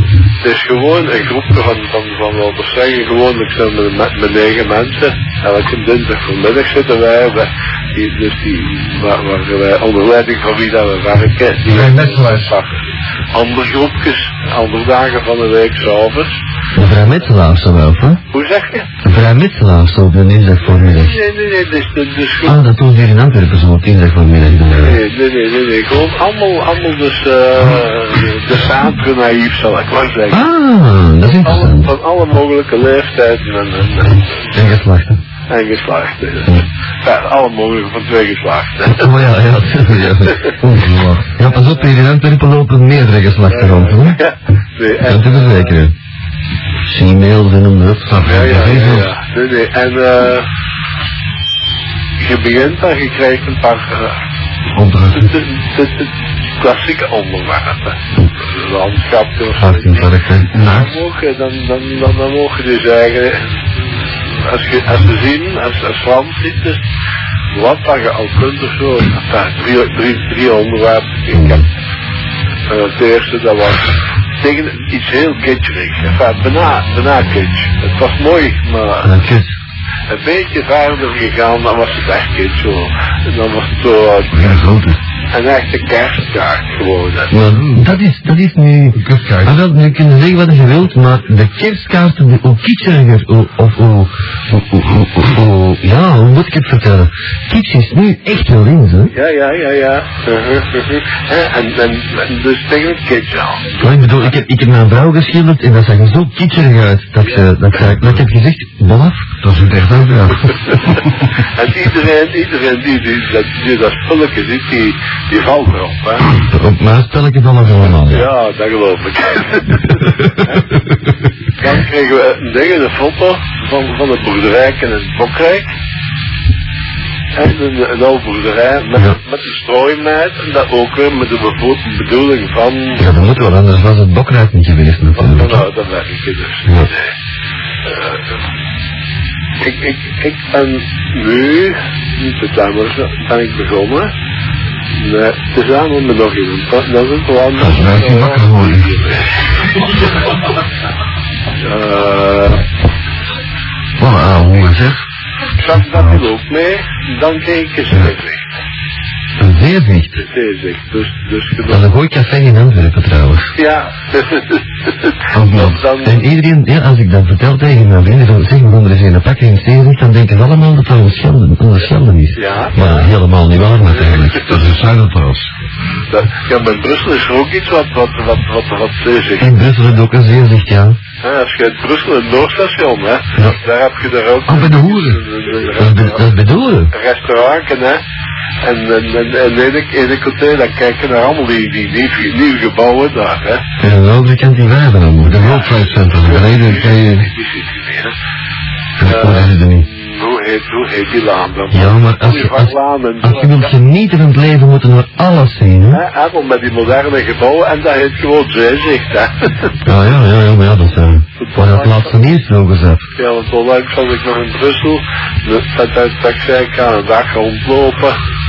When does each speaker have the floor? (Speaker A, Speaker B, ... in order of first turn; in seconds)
Speaker A: 0.4-12.8, 13.3-16.4, 18.3-18.9, 20.7-22.6, 24.8-30.5, 31.2-34.5, 35.5-39.1, 43.5-45.8, 48.2-50.5, 52.2-54.2, 55.1-63.5, 64.4-66.8, 67.5-71.6, 72.7-79.2, 80.1-84.5, 85.3-87.3, 99.1-103.9, 111.4-116.3, 118.1-120.6, 121.6-125.7, 127.3-133.1, 135.1-137.1, 137.9-138.2, 139.6-144.1, 145.0-149.3, 151.6-152.7, 155.6-158.4, 160.2-161.9, 163.6-166.2, 172.4-173.1, 173.7-174.4, 176.1-179.5, 181.2-186.2, 186.9-188.0, 188.6-193.6, 195.3-198.1, 199.0-203.7, 205.9-209.8, 211.4-212.2, 213.2-218.2
Speaker B: 11.7-12.5, 40.7-41.2, 48.1-49.0, 54.8-55.2, 84.3-85.0, 87.5-87.9, 89.0-89.5, 109.4-110.8, 147.6-148.6, 174.4-175.5, 195.4-196.7
Speaker C: 16.8-18.2, 19.0-21.2, 22.4-25.0, 30.3-31.9, 34.5-35.2, 38.9-44.2, 45.0-45.9, 46.9-48.8, 59.6-60.7, 71.3-71.7, 79.0-79.5, 87.3-99.1, 103.8-109.3, 116.4-118.3, 133.0-135.7, 147.9-148.8, 154.0-155.0, 159.4-160.2, 161.7-163.5, 165.3-174.6, 179.4-181.0, 184.5-185.2, 185.8-186.9, 193.8-195.7, 196.3-197.2, 199.0-199.9, 201.7-206.0, 209.8-213.1